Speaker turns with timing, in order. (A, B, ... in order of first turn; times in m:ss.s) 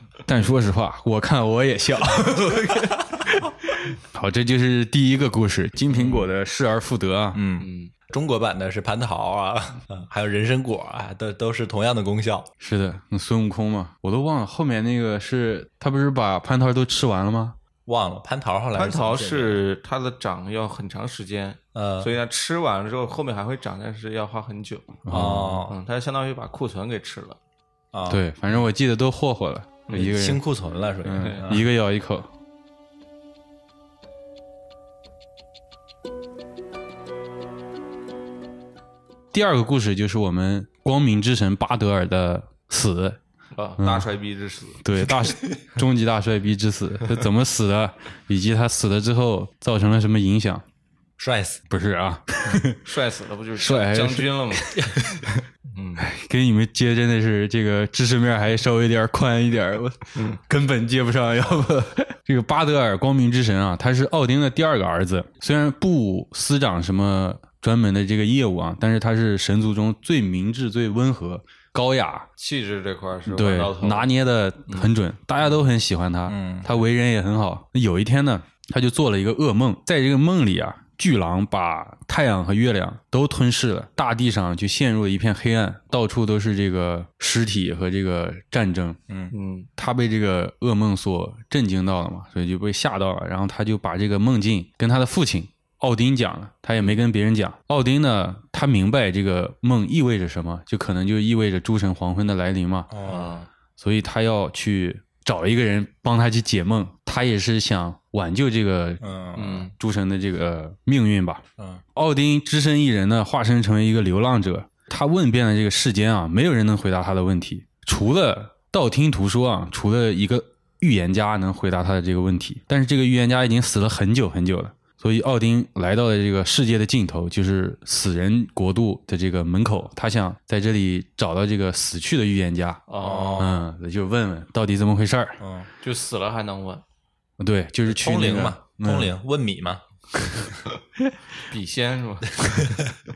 0:00.2-0:07.4 A
0:05.9-0:06.3 B
0:07.3-0:12.5 B
0:07.6-0:07.9 C
0:12.6-0:17.6 A
0:17.9-0:19.6 B
0:18.7-0:25.0 C
0:21.7-0:22.1 B
0:25.0-0:25.7 A
0:25.1-0:25.7 B
0:25.7-0:27.4 C
0:27.9-0:28.2 B
0:28.1-0:30.4 A
0:29.9-0:30.2 C
0:29.9-0:31.7 B
0:31.0-0:32.3 A
0:31.2-0:31.5 C
0:39.3-0:43.2 A
0:43.5-0:44.8 C
0:43.8-0:44.1 A
0:44.8-0:50.6 A
0:51.2-0:51.6 B
0:51.7-0:52.8 A
0:52.4-0:56.0 C
0:53.6-0:54.9 A
0:56.0-1:12.3 A
1:00.1-1:00.4 C
1:12.4-1:14.1 C
1:13.3-1:29.0 A
1:16.3-1:16.7 B
1:29.3-1:29.7 C
1:29.8-1:42.9 A
1:42.9-1:43.4 B
1:43.0-1:43.5 C
1:43.8-1:49.0 A
1:49.0-1:49.6 B
1:49.4-1:49.7 C
1:49.7-1:51.4 A
1:51.6-1:51.8 B
1:51.9-2:12.8 A
2:12.9-2:13.5 C
2:13.0-2:13.7 B
2:13.4-2:15.4 A
2:15.4-2:15.7 B
2:15.8-2:16.8 C
2:17.4-2:19.1 A
2:17.8-2:19.8 B
2:20.2-2:21.1 A
2:21.5-2:22.7 C